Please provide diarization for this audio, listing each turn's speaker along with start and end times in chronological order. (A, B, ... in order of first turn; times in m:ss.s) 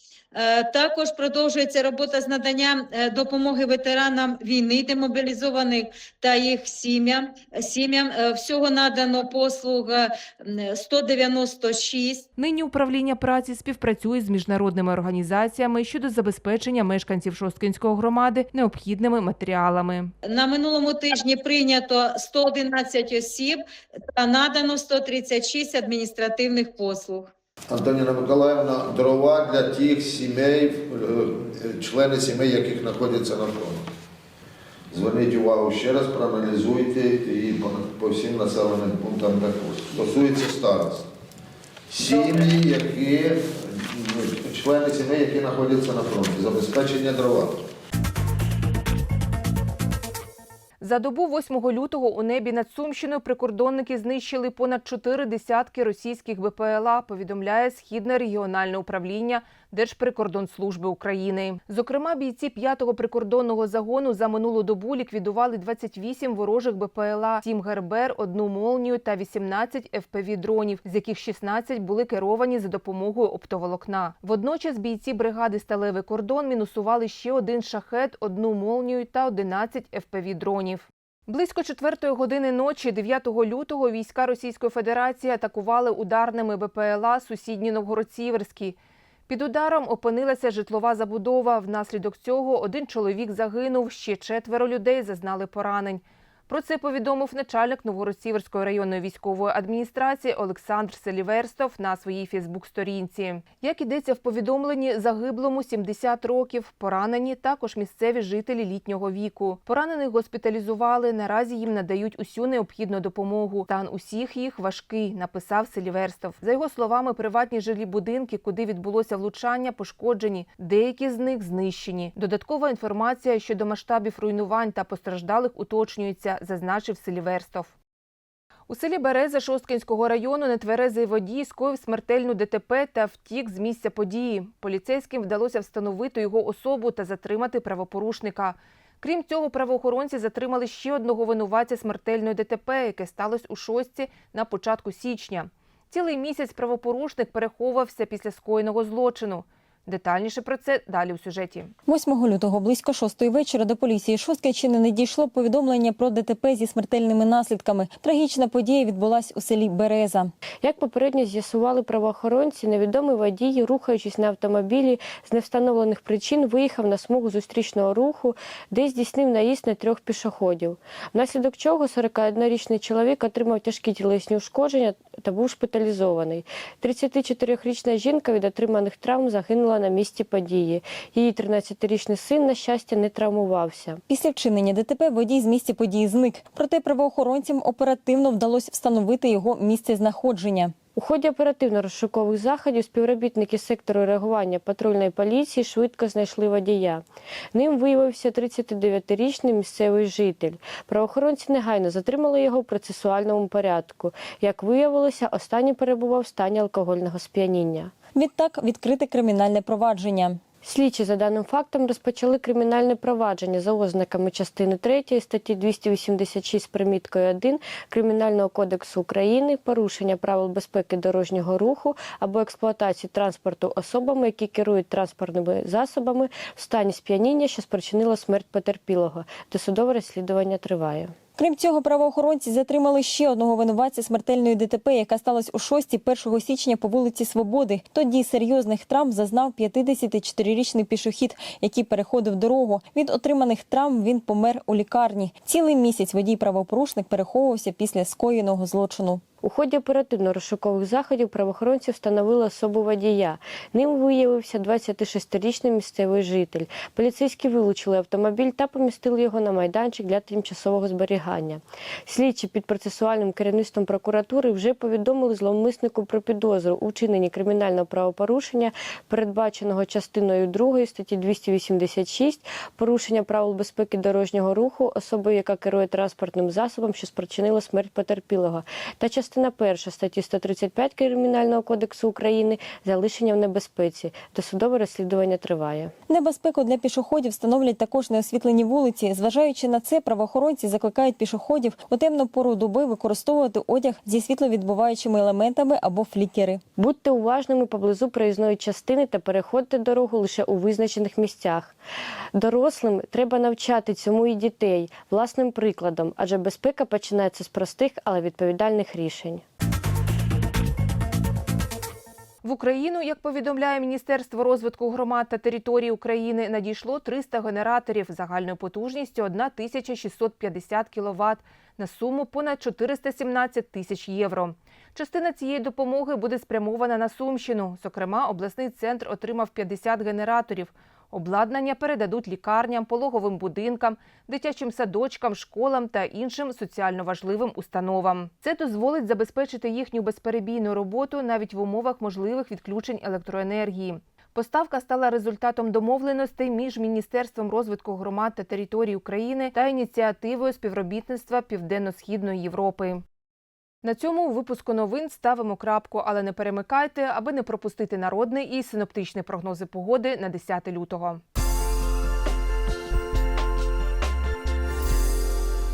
0:00.3-0:12.2 A
0:12.4-0:20.1 B
0:20.2-0:23.6 A
0:24.1-0:27.3 A
0:27.7-0:33.8 C
0:34.9-0:41.1 C
0:41.9-0:47.6 C
0:50.8-1:28.8 B
1:29.3-2:07.7 B
2:08.7-2:31.7 B
2:31.9-2:40.3 D
2:40.6-3:04.0 E
3:04.1-3:10.7 D
3:11.0-3:27.9 E
3:28.2-3:30.4 D
3:30.6-3:51.1 E
3:51.4-4:09.2 D
4:09.4-4:45.9 E
4:46.1-4:56.6 D
4:56.8-5:01.8 E
5:02.4-5:09.4 E
5:12.4-5:53.0 B
5:53.8-6:01.2 B